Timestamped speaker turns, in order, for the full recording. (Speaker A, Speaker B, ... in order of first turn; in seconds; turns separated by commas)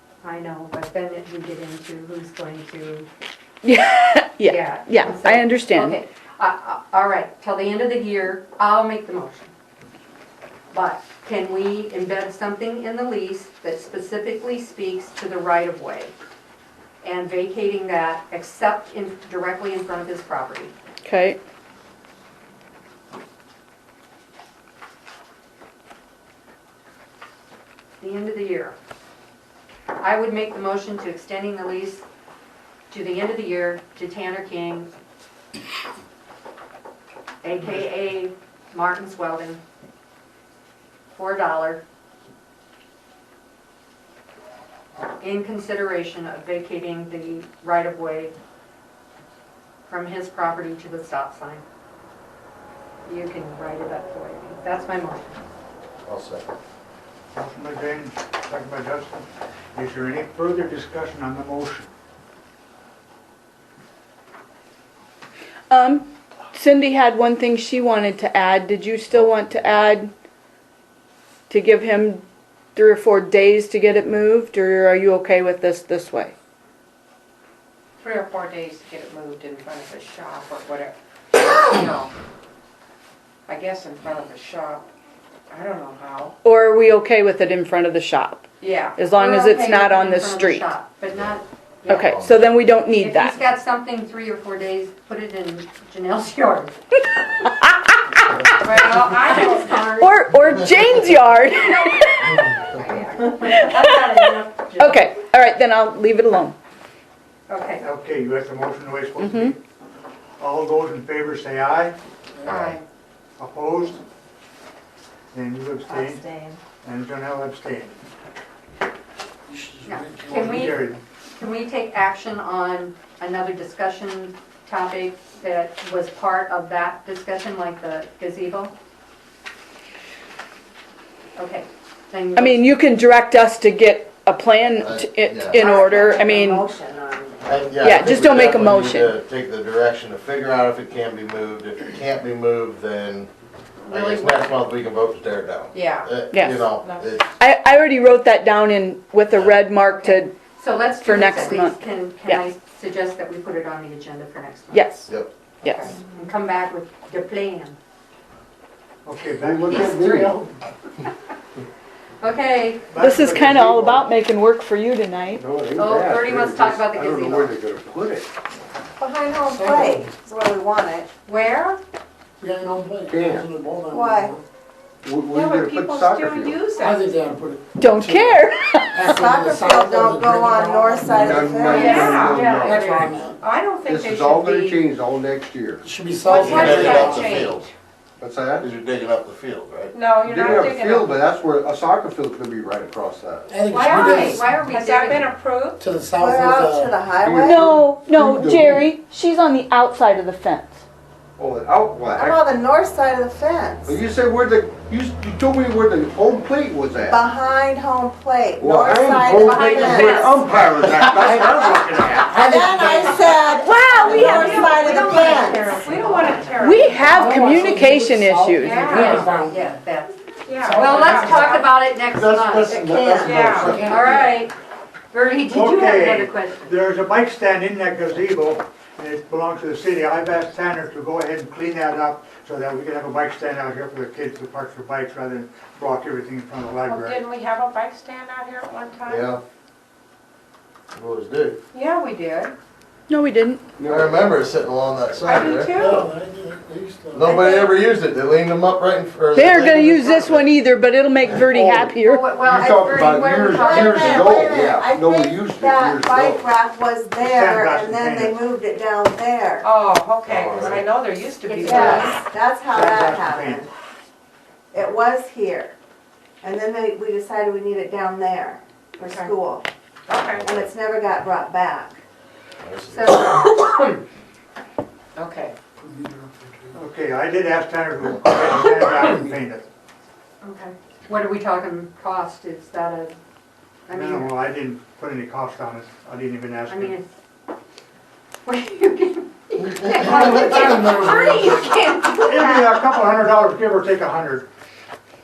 Speaker A: 0.2-3.1, Speaker B: 3.6-6.0, Speaker A: 4.5-9.5, Speaker A: 10.7-16.1, Speaker A: 17.0-20.7, Speaker B: 21.0-21.4, Speaker A: 28.0-28.8, Speaker A: 30.0-32.0, Speaker A: 32.9-34.9, Speaker A: 37.4-39.6, Speaker A: 41.1-41.8, Speaker A: 45.2-48.3, Speaker A: 49.9-51.6, Speaker A: 53.0-55.4, Speaker C: 56.0-56.4, Speaker D: 57.3-61.9, Speaker B: 65.7-70.1, Speaker B: 71.5-76.3, Speaker E: 78.0-82.1, Speaker E: 83.5-84.8, Speaker E: 85.5-86.3, Speaker B: 86.4-90.7, Speaker E: 88.6-89.0, Speaker A: 89.1-92.2, Speaker B: 91.9-93.4, Speaker C: 91.9-92.3, Speaker A: 93.0-96.8, Speaker E: 98.6-99.9, Speaker A: 98.6-101.0, Speaker B: 100.0-102.3, Speaker A: 101.6-105.1, Speaker B: 103.5-104.0, Speaker B: 104.8-106.5, Speaker A: 107.5-107.8, Speaker D: 107.8-109.6, Speaker B: 109.2-109.5, Speaker D: 110.4-112.0, Speaker E: 112.4-112.8, Speaker C: 112.5-112.8, Speaker D: 113.4-114.0, Speaker D: 115.3-118.0, Speaker F: 115.8-116.6, Speaker D: 119.5-121.0, Speaker A: 119.8-128.7, Speaker A: 131.3-132.8, Speaker B: 132.3-136.6, Speaker C: 134.7-135.7, Speaker F: 135.5-137.6, Speaker C: 137.4-143.3, Speaker B: 137.8-139.2, Speaker A: 143.8-144.5, Speaker C: 143.9-147.2, Speaker A: 145.8-146.1, Speaker B: 146.3-146.7, Speaker E: 146.8-147.2, Speaker B: 147.3-150.3, Speaker C: 149.3-149.6, Speaker A: 149.9-155.0, Speaker B: 151.0-152.4, Speaker B: 154.7-155.1, Speaker B: 155.6-155.9, Speaker A: 155.6-157.8, Speaker D: 159.0-160.6, Speaker G: 159.4-160.3, Speaker A: 162.2-162.9, Speaker D: 162.9-164.1, Speaker B: 163.0-165.4, Speaker G: 165.3-168.3, Speaker A: 165.8-167.6, Speaker F: 169.0-171.1, Speaker H: 169.5-170.1, Speaker A: 171.2-171.8, Speaker H: 172.4-174.3, Speaker D: 172.7-173.6, Speaker G: 173.1-173.5, Speaker F: 173.9-174.4, Speaker G: 175.0-176.7, Speaker E: 175.3-177.0, Speaker D: 176.8-182.0, Speaker H: 177.2-178.2, Speaker B: 177.8-179.0, Speaker H: 178.9-181.7, Speaker F: 179.0-182.3, Speaker C: 181.2-182.8, Speaker G: 181.3-182.8, Speaker E: 181.7-184.8, Speaker A: 181.7-182.3, Speaker D: 182.7-183.3, Speaker C: 183.9-185.8, Speaker H: 185.8-187.1, Speaker D: 185.9-187.5, Speaker E: 186.2-187.7, Speaker C: 186.4-187.6, Speaker G: 188.2-188.7, Speaker C: 188.2-193.5, Speaker E: 189.9-191.1, Speaker G: 190.2-192.4, Speaker H: 193.5-194.4, Speaker D: 193.5-194.4, Speaker E: 193.6-195.8, Speaker A: 193.7-195.3, Speaker H: 195.8-196.8, Speaker D: 196.1-196.9, Speaker F: 196.1-197.7, Speaker G: 197.2-198.9, Speaker B: 197.4-200.8, Speaker G: 201.4-202.4, Speaker F: 202.1-204.0, Speaker G: 203.9-207.2, Speaker F: 207.0-210.4, Speaker G: 208.6-212.2, Speaker A: 209.4-210.8, Speaker D: 210.7-211.2, Speaker C: 210.8-212.4, Speaker H: 212.3-213.1, Speaker F: 212.3-215.7, Speaker D: 212.5-213.5, Speaker B: 213.9-214.2, Speaker E: 213.9-217.8, Speaker A: 214.0-217.2, Speaker B: 216.6-218.8, Speaker H: 217.2-217.9, Speaker D: 217.3-219.6, Speaker E: 218.6-219.3, Speaker A: 218.7-222.9, Speaker H: 218.8-219.5, Speaker E: 220.4-221.7, Speaker G: 222.1-222.5, Speaker D: 222.6-224.1, Speaker F: 222.7-223.6, Speaker E: 223.2-223.9, Speaker G: 223.4-224.2, Speaker C: 223.5-224.2, Speaker A: 223.6-224.5, Speaker H: 223.6-223.9, Speaker A: 225.1-226.8, Speaker D: 225.5-237.2, Speaker E: 236.8-239.3, Speaker C: 239.1-239.4, Speaker C: 240.9-241.6, Speaker E: 241.7-242.5, Speaker B: 243.1-243.6, Speaker G: 243.8-244.4, Speaker C: 243.8-245.8, Speaker E: 245.2-246.1, Speaker D: 245.7-247.2, Speaker H: 246.6-247.2, Speaker C: 247.1-250.5, Speaker B: 249.3-252.3, Speaker A: 252.0-254.3, Speaker F: 252.5-259.7, Speaker G: 252.6-256.2, Speaker C: 254.4-256.4, Speaker D: 257.2-258.4, Speaker E: 259.6-262.2, Speaker C: 260.2-260.9, Speaker F: 261.5-263.7, Speaker A: 261.6-262.0, Speaker D: 262.7-263.7, Speaker F: 264.7-265.7, Speaker F: 266.4-269.7, Speaker E: 269.0-269.3, Speaker E: 270.1-270.4, Speaker C: 270.3-270.7, Speaker F: 270.4-272.0, Speaker C: 272.6-273.3, Speaker A: 272.9-273.9, Speaker E: 275.1-275.6, Speaker D: 275.8-279.6, Speaker A: 280.4-283.1, Speaker A: 283.9-284.4, Speaker D: 283.9-287.0, Speaker A: 286.7-287.1, Speaker A: 288.4-293.0, Speaker C: 289.9-290.5, Speaker D: 291.0-291.3, Speaker D: 292.2-294.5